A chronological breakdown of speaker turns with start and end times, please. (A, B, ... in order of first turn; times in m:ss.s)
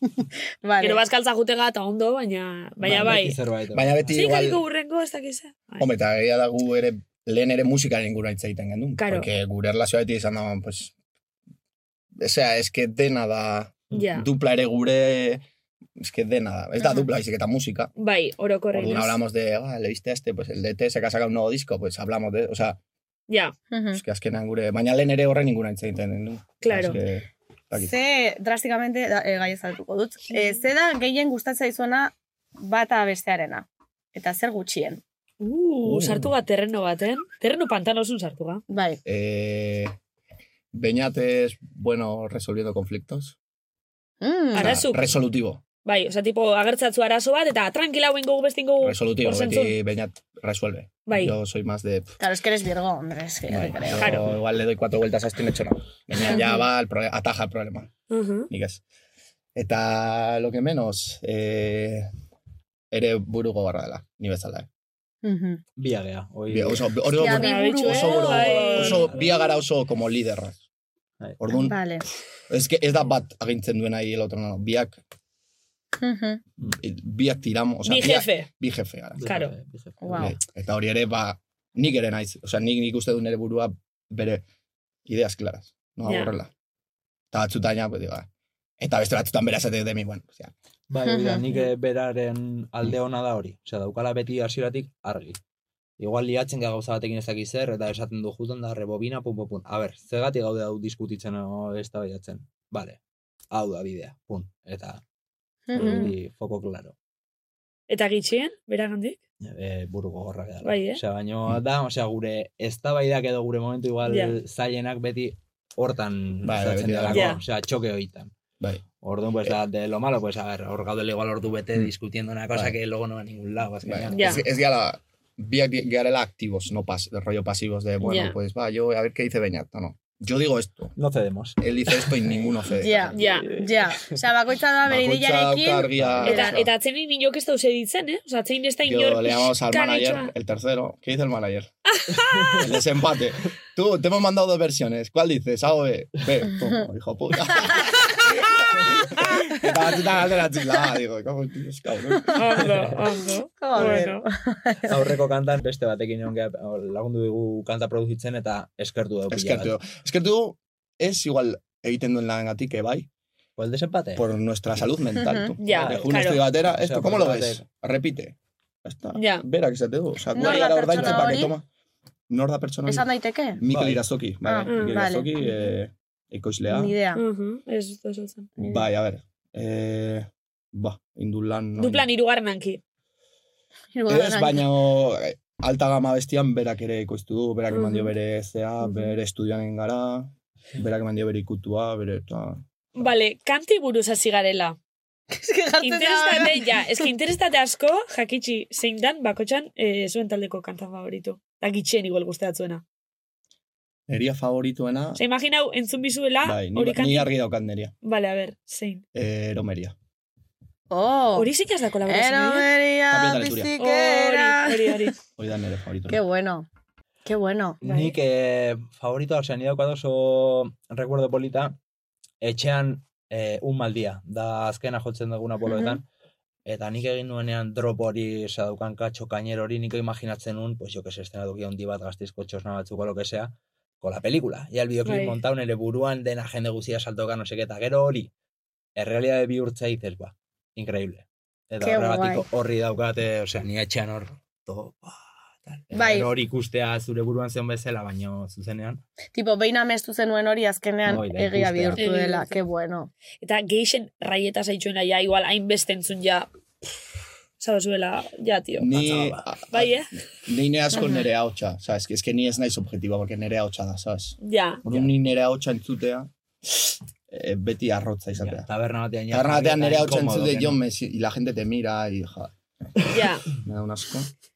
0:00.2-0:01.0 A
0:00.8-0:03.4 B
0:02.8-0:04.6 C
0:02.8-0:04.2 D
0:04.1-0:05.9 B
0:05.8-0:10.9 C
0:09.0-0:09.3 B
0:12.2-0:15.4 C
0:13.9-0:14.3 B
0:16.0-0:17.9 C
0:16.8-0:17.1 A
0:18.0-0:19.2 B
0:18.7-0:22.8 C
0:23.3-0:23.5 B
0:23.7-0:24.0 A
0:23.9-0:27.9 C
0:26.6-0:27.0 B
0:27.8-0:35.0 A
0:30.3-0:30.6 B
0:35.4-0:38.6 B
0:35.8-0:36.4 C
0:38.7-0:39.0 A
0:39.0-0:40.0 C
0:40.7-0:43.4 C
0:44.2-0:44.8 A
0:44.5-0:45.2 B
0:44.6-0:45.6 C
0:45.8-0:49.7 B
0:48.8-0:52.2 C
0:51.1-0:51.4 B
0:52.2-0:54.2 A
0:53.5-0:57.9 C
0:54.0-0:54.2 B
0:56.2-0:56.6 A
0:58.1-0:58.5 B
0:58.5-0:58.8 C
0:59.6-1:02.1 C
1:02.9-1:04.7 C
1:05.2-1:05.6 A
1:05.8-1:06.9 D
1:06.5-1:10.6 C
1:07.1-1:09.5 A
1:07.2-1:09.1 B
1:11.4-1:11.8 C
1:11.5-1:12.0 A
1:12.5-1:15.0 C
1:16.0-1:16.4 A
1:16.7-1:19.2 C
1:17.8-1:18.5 B
1:19.2-1:20.3 D
1:19.2-1:19.5 B
1:20.0-1:20.4 A
1:20.1-1:24.4 C
1:25.1-1:26.5 C
1:26.0-1:26.3 B
1:27.3-1:28.3 C
1:28.8-1:30.5 C
1:30.9-1:35.4 D
1:31.0-1:31.7 A
1:36.0-1:43.0 D
1:43.5-1:45.0 D
1:45.7-1:46.1 A
1:45.8-1:47.0 D
1:45.8-1:46.1 B
1:47.9-1:49.2 B
1:49.4-1:58.3 D
1:50.6-1:51.0 B
1:54.1-1:54.4 B
1:56.4-1:57.4 C
1:57.1-1:57.4 B
1:59.0-2:04.4 D
2:02.5-2:02.8 C
2:03.8-2:10.9 C
2:04.1-2:04.4 B
2:08.0-2:08.4 B
2:11.0-2:12.5 D
2:11.6-2:13.1 C
2:12.7-2:16.6 A
2:13.1-2:14.2 D
2:13.1-2:13.5 B
2:14.9-2:16.7 C
2:16.2-2:20.3 B
2:18.8-2:21.7 C
2:22.1-2:22.5 B
2:22.3-2:22.6 D
2:22.6-2:32.8 C
2:32.4-2:34.2 B
2:33.6-2:35.0 A
2:34.9-2:39.7 D
2:39.3-2:43.1 C
2:43.6-2:44.3 D
2:44.2-2:51.7 C
2:45.2-2:45.5 A
2:45.6-2:46.4 B
2:45.6-2:47.6 D
2:49.2-2:49.4 B
2:50.3-2:51.5 A
2:50.4-2:51.5 B
2:52.3-2:57.0 C
2:52.9-2:53.6 A
2:53.7-2:54.0 D
2:54.4-2:55.4 A
2:54.7-2:55.0 B
2:56.7-2:57.2 A
2:57.2-2:58.5 B
2:58.6-3:02.1 C
3:01.8-3:02.8 B
3:03.9-3:04.7 A
3:04.1-3:12.6 C
3:07.7-3:08.1 B
3:13.0-3:14.8 B
3:15.3-3:17.0 A
3:15.8-3:22.8 B
3:24.1-3:25.2 C
3:25.2-3:27.3 B
3:26.4-3:27.9 C
3:28.0-3:29.0 B
3:29.1-3:30.0 C
3:30.9-3:31.5 A
3:31.4-3:32.7 B
3:32.1-3:35.1 A
3:33.1-3:33.7 C
3:33.8-3:35.1 B
3:35.4-3:36.2 C
3:36.1-3:36.7 A
3:37.2-3:38.1 A
3:37.8-3:41.8 D
3:42.4-3:46.0 D
3:45.6-3:46.0 A
3:46.7-3:58.3 D
3:55.0-3:55.4 B
3:59.0-4:09.0 D
4:01.8-4:02.4 A
4:05.9-4:06.3 A
4:09.3-4:13.1 A
4:11.0-4:12.0 D
4:12.0-4:12.6 B
4:13.4-4:16.5 B
4:17.6-4:18.9 B
4:18.8-4:26.3 C
4:18.9-4:19.4 D
4:19.7-4:20.1 B
4:20.9-4:21.2 A
4:24.4-4:24.8 B
4:24.9-4:25.1 D
4:27.3-4:28.7 C
4:28.4-4:30.8 D
4:29.3-4:32.5 C
4:33.1-4:33.5 B
4:33.5-4:34.3 C